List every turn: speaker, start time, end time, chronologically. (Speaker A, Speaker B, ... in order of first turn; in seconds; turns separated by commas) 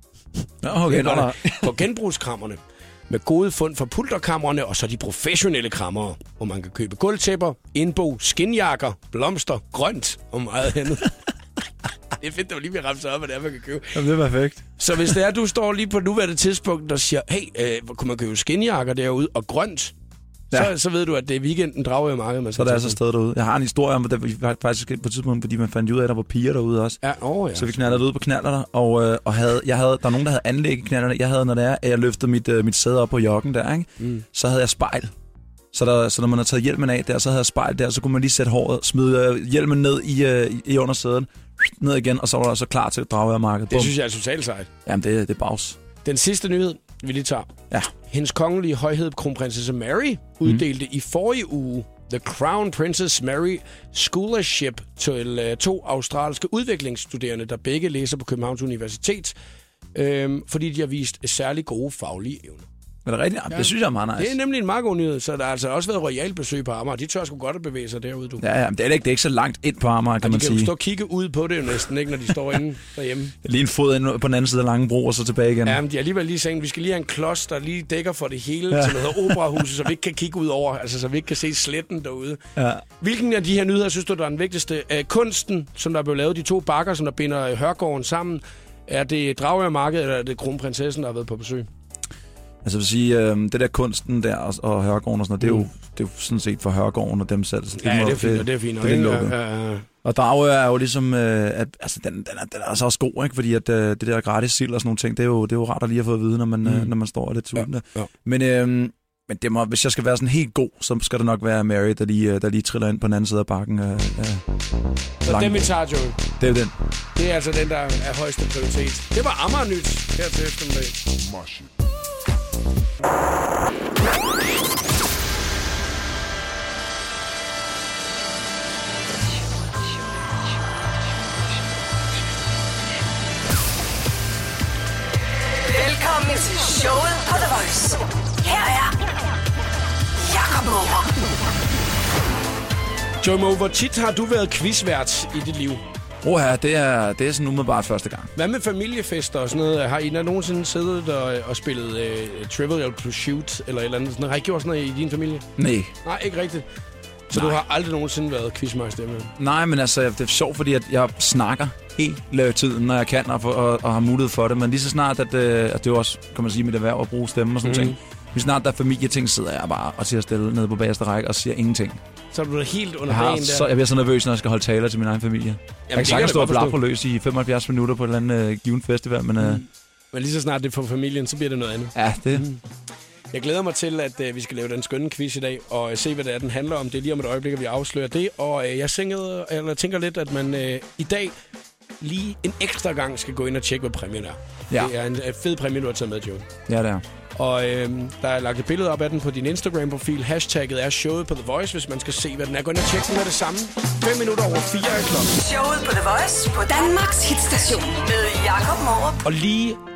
Speaker A: 0.6-1.7, Speaker B: 0.8-11.1, Speaker B: 12.2-14.0, Speaker A: 13.9-15.1, Speaker B: 14.8-19.9, Speaker B: 20.5-23.0, Speaker A: 22.6-27.0, Speaker B: 27.0-28.0, Speaker A: 27.5-35.1, Speaker A: 35.7-43.9, Speaker B: 43.7-44.7, Speaker A: 44.9-45.8, Speaker B: 46.0-47.5, Speaker B: 48.1-59.3, Speaker B: 59.9-62.7, Speaker A: 63.0-64.3, Speaker B: 63.5-68.4, Speaker A: 68.4-70.7, Speaker B: 70.2-73.3, Speaker A: 73.4-75.8, Speaker B: 75.6-82.4, Speaker A: 78.7-79.4, Speaker A: 82.5-82.8, Speaker B: 83.0-91.7, Speaker A: 92.6-99.3, Speaker B: 95.4-95.7, Speaker B: 97.8-99.9, Speaker A: 100.0-114.4, Speaker B: 106.6-106.9, Speaker B: 107.5-108.1, Speaker B: 115.2-116.2, Speaker A: 115.2-115.7, Speaker A: 116.4-116.7, Speaker B: 117.2-121.0, Speaker C: 135.6-139.0, Speaker C: 140.2-141.2, Speaker B: 143.2-145.8, Speaker A: 146.2-148.3, Speaker B: 148.3-155.5, Speaker A: 155.6-155.9, Speaker B: 156.0-156.7, Speaker B: 157.3-159.3, Speaker A: 157.3-157.6, Speaker A: 159.4-172.0, Speaker B: 167.6-168.0, Speaker B: 172.3-173.7, Speaker A: 173.1-179.6, Speaker B: 175.9-176.8, Speaker B: 179.4-182.6, Speaker A: 181.9-182.5, Speaker B: 183.3-191.3, Speaker B: 192.0-196.5, Speaker A: 196.7-197.0, Speaker B: 197.3-205.3, Speaker C: 205.3-209.2, Speaker B: 209.2-209.8